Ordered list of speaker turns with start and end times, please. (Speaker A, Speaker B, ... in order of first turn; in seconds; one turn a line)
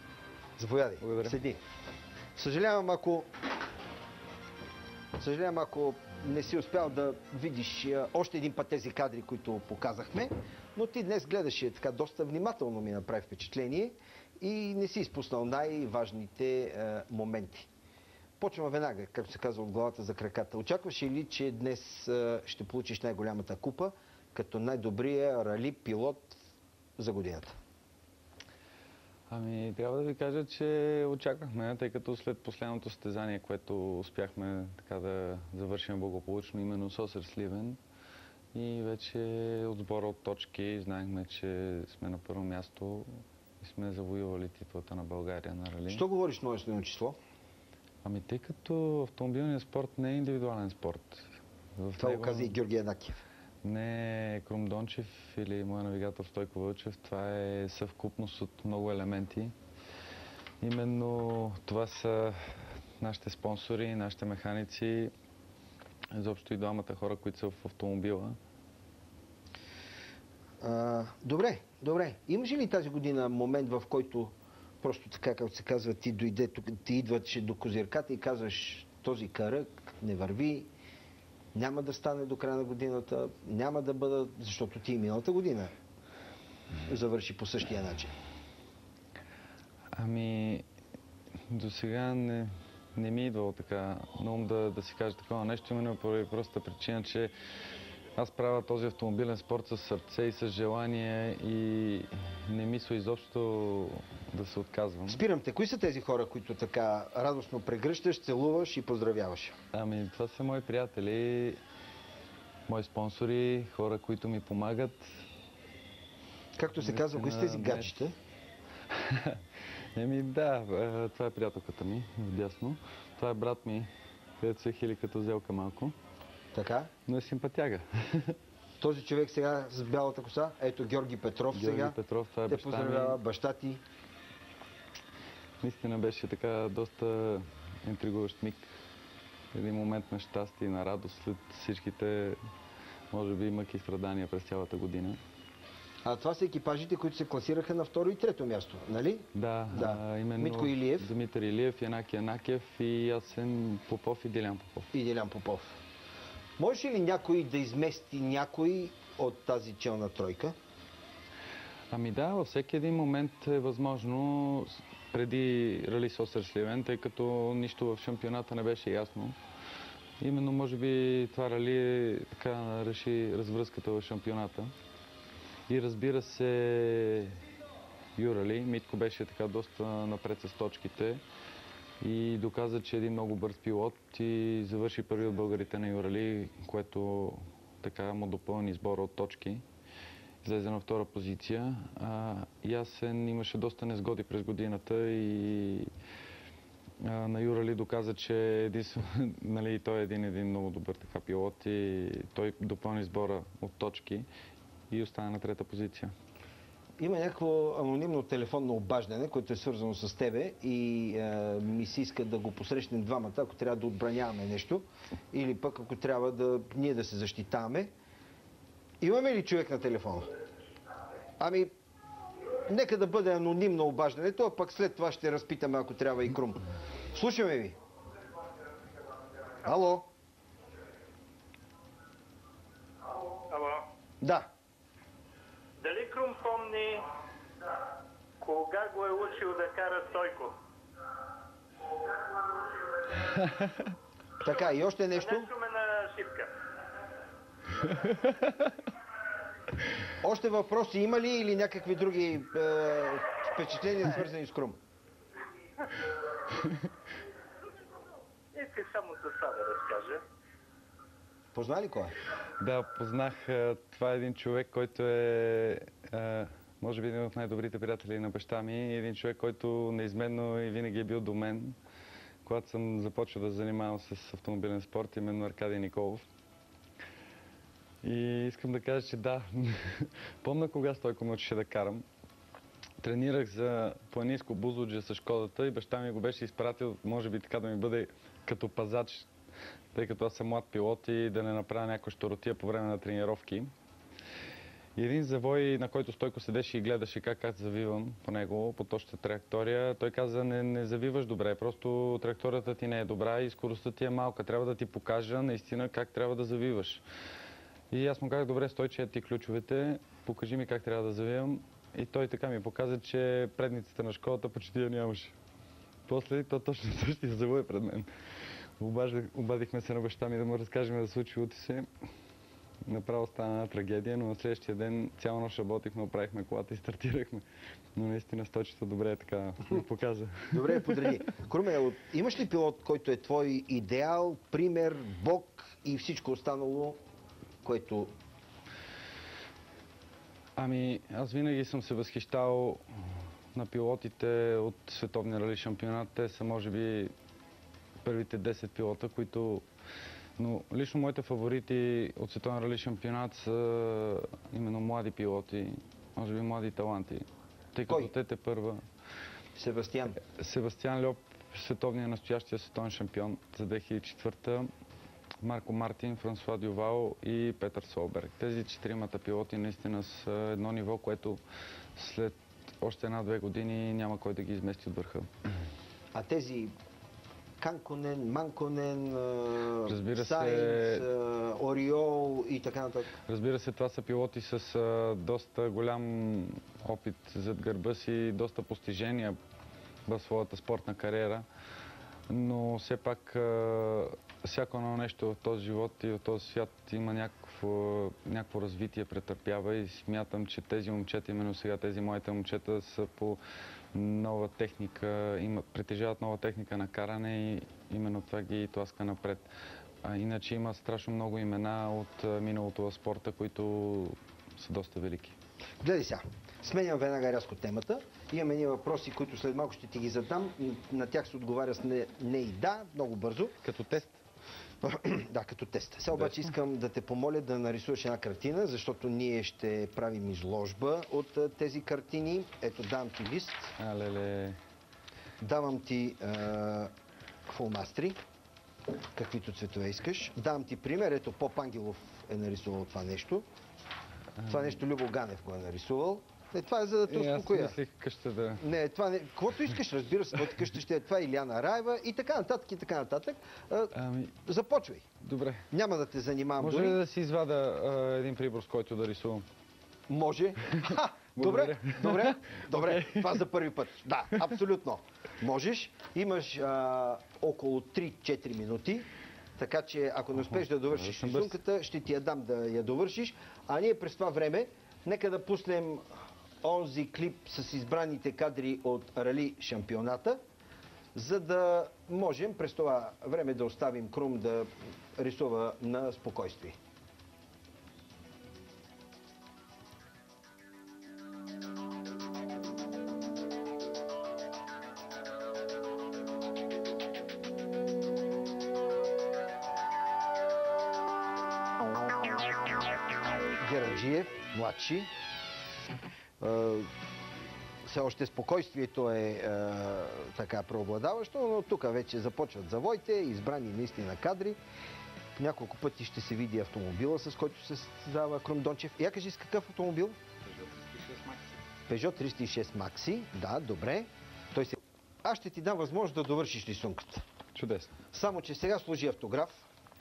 Speaker A: 0.6-1.6
Speaker B: 1.0-1.4
Speaker A: 2.4-3.3
Speaker A: 5.2-17.7
Speaker A: 18.4-26.4
Speaker A: 27.0-27.6
Speaker B: 29.3-37.8
Speaker B: 38.5-46.0
Speaker A: 45.9-47.2
Speaker B: 48.0-52.6
Speaker A: 52.0-53.2
Speaker B: 53.6-59.5
Speaker B: 60.6-65.1
Speaker B: 66.1-68.4
Speaker A: 70.6-80.7
Speaker A: 81.5-85.7
Speaker A: 86.9-88.1
Speaker B: 90.0-90.7
Speaker B: 91.5-97.3
Speaker B: 98.2-105.2
Speaker A: 105.1-109.5
Speaker B: 109.7-111.6
Speaker B: 112.7-115.1
Speaker A: 116.6-118.2
Speaker B: 116.8-118.1
Speaker B: 118.9-119.4
Speaker B: 120.0-123.9
Speaker B: 124.4-125.9
Speaker A: 126.5-126.9
Speaker B: 127.1-128.4
Speaker A: 128.8-132.0
Speaker B: 131.5-133.2
Speaker A: 132.5-133.8
Speaker B: 135.6-138.7
Speaker B: 139.5-142.4
Speaker B: 143.1-145.2
Speaker A: 146.0-151.1
Speaker B: 149.3-154.9
Speaker A: 154.9-155.8
Speaker A: 156.6-160.5
Speaker B: 161.9-169.4
Speaker B: 170.2-174.7
Speaker B: 175.7-177.4
Speaker B: 178.2-181.2
Speaker B: 182.0-189.6
Speaker B: 190.4-195.9
Speaker B: 197.0-204.3
Speaker B: 204.9-206.1
Speaker A: 207.0-217.9
Speaker A: 219.0-220.3
Speaker A: 221.4-221.7
Speaker A: 222.7-227.8
Speaker A: 229.6-230.1
Speaker C: 233.5-233.9
Speaker A: 234.2-234.5
Speaker C: 235.8-237.1
Speaker C: 238.4-240.6
Speaker B: 243.3-243.9
Speaker A: 244.4-245.5
Speaker C: 245.2-246.5
Speaker B: 247.8-248.7
Speaker A: 250.2-254.8
Speaker C: 258.5-260.2
Speaker A: 261.5-262.1
Speaker B: 262.6-271.8
Speaker B: 272.4-276.2
Speaker B: 278.0-282.0
Speaker B: 283.0-289.3
Speaker B: 289.9-293.7
Speaker B: 295.0-307.0
Speaker B: 307.9-315.4
Speaker B: 316.1-318.1
Speaker B: 318.8-321.9
Speaker B: 322.9-327.4
Speaker B: 328.0-331.1
Speaker A: 330.5-337.0
Speaker A: 337.6-338.1
Speaker B: 340.6-342.8
Speaker B: 343.5-347.1
Speaker B: 348.0-349.6
Speaker B: 350.4-358.8
Speaker A: 357.9-358.1
Speaker A: 359.6-360.2
Speaker B: 360.2-364.7
Speaker B: 365.4-371.4
Speaker B: 372.0-375.3
Speaker A: 376.1-376.7
Speaker A: 377.6-383.1
Speaker B: 379.9-381.1
Speaker B: 383.3-389.4
Speaker B: 390.1-391.4
Speaker B: 392.3-403.4
Speaker B: 403.9-409.5
Speaker B: 410.0-415.4
Speaker A: 415.8-423.6
Speaker B: 423.6-424.2
Speaker A: 424.8-433.7
Speaker B: 433.8-434.6
Speaker A: 435.4-436.9
Speaker A: 437.5-438.2
Speaker A: 439.1-443.4
Speaker B: 444.4-444.8
Speaker A: 444.5-447.8
Speaker B: 447.1-448.6
Speaker A: 448.6-453.9
Speaker B: 453.9-454.4
Speaker A: 454.5-455.1
Speaker B: 455.2-455.7
Speaker A: 455.7-457.0
Speaker B: 456.6-459.4
Speaker A: 460.1-476.0
Speaker B: 461.4-463.4
Speaker B: 470.5-471.6
Speaker A: 476.6-480.4
Speaker A: 481.1-486.8
Speaker A: 503.6-505.1
Speaker A: 506.4-506.9
Speaker A: 507.9-514.6
Speaker A: 515.4-520.2
Speaker B: 520.5-521.4
Speaker A: 521.9-527.2
Speaker B: 527.5-528.0
Speaker A: 528.1-529.7